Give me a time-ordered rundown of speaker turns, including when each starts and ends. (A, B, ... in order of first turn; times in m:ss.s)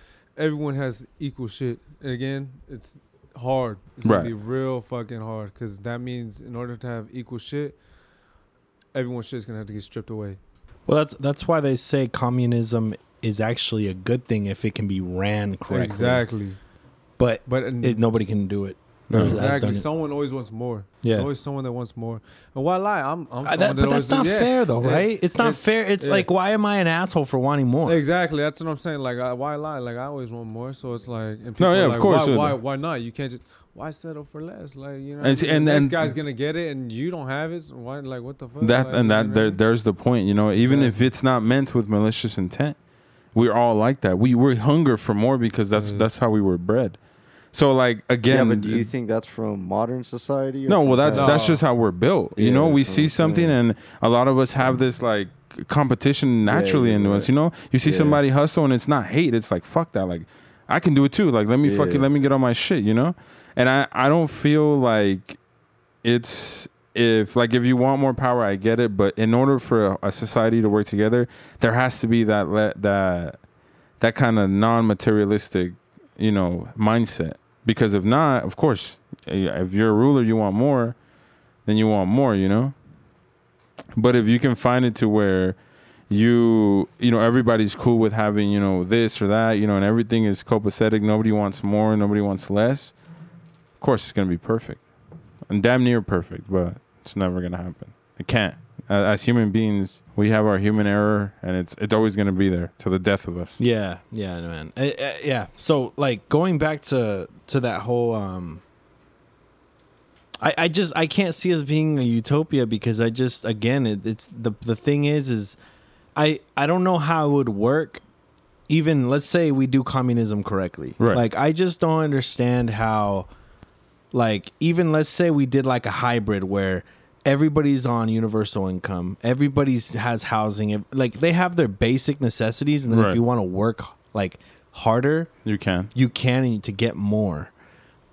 0:00.4-0:07.8 A
0:04.0-0:04.3 B
0:08.9-0:10.4 A
0:10.9-0:16.3 C
0:15.7-0:16.6 A
0:17.2-0:19.9 C
0:17.4-0:18.3 A
0:19.1-0:19.6 B
0:19.2-0:26.3 A
0:21.0-0:21.3 C
0:23.4-0:28.0 C
0:27.8-0:39.6 A
0:31.6-0:32.6 B
0:35.2-0:36.2 B
0:38.6-0:42.8 B
0:40.6-0:41.0 A
0:43.3-0:47.0 B
0:45.7-0:46.1 A
0:47.5-0:48.9 B
0:48.3-0:51.6 D
0:50.7-1:05.4 B
0:51.1-0:51.6 A
0:52.4-0:53.6 D
0:56.4-0:58.2 D
1:01.6-1:02.1 D
1:06.0-1:13.4 B
1:14.0-1:21.0 B
1:21.6-1:22.8 B
1:24.0-1:33.0 B
1:33.8-1:34.9 B
1:35.5-1:43.6 B
1:43.6-1:48.6 C
1:50.4-1:55.6 C
1:56.2-1:58.0 C
1:58.7-2:03.3 C
2:04.1-2:15.4 C
2:12.9-2:13.2 B
2:15.4-2:15.9 B
2:15.9-2:17.5 C